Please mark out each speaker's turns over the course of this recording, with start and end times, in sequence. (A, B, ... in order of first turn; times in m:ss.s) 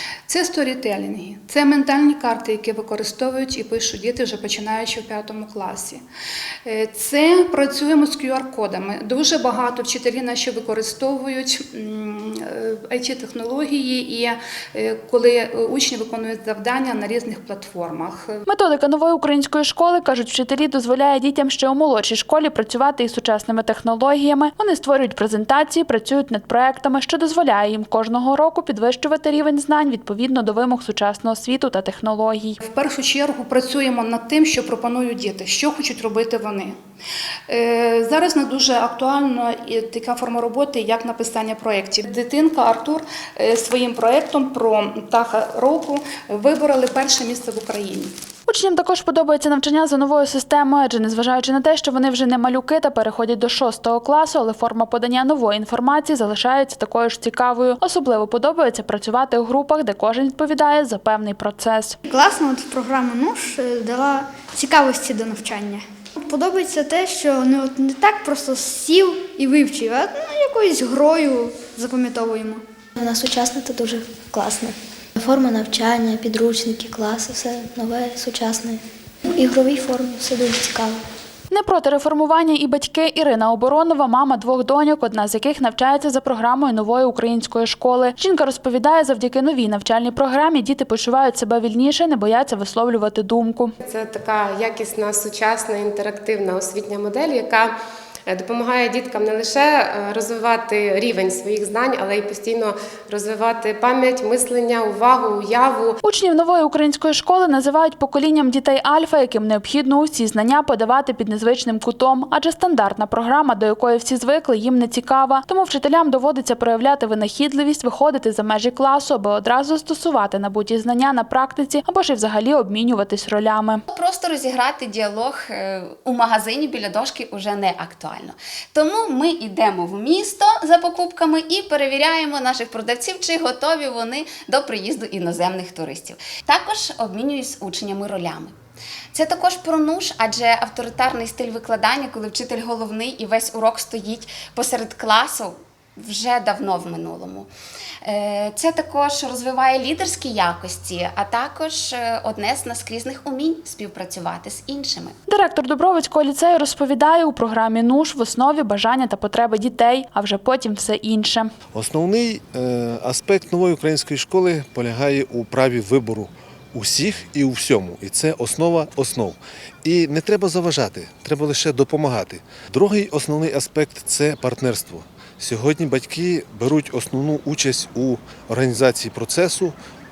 0:00.3-0:06.0 A
0:06.6-0:18.4 A
0:18.5-0:32.6 B
0:32.6-0:36.7 A
0:37.5-0:48.1 A
0:48.5-1:02.0 B
1:02.0-1:12.6 C
1:13.0-1:21.0 D
1:21.5-1:33.7 B
1:33.8-1:37.7 E
1:38.3-1:46.0 E
1:46.0-2:03.8 B
2:03.9-2:18.6 F
2:19.1-2:27.5 F
2:28.0-2:35.2 F
2:35.3-2:41.5 B
2:41.7-2:59.8 G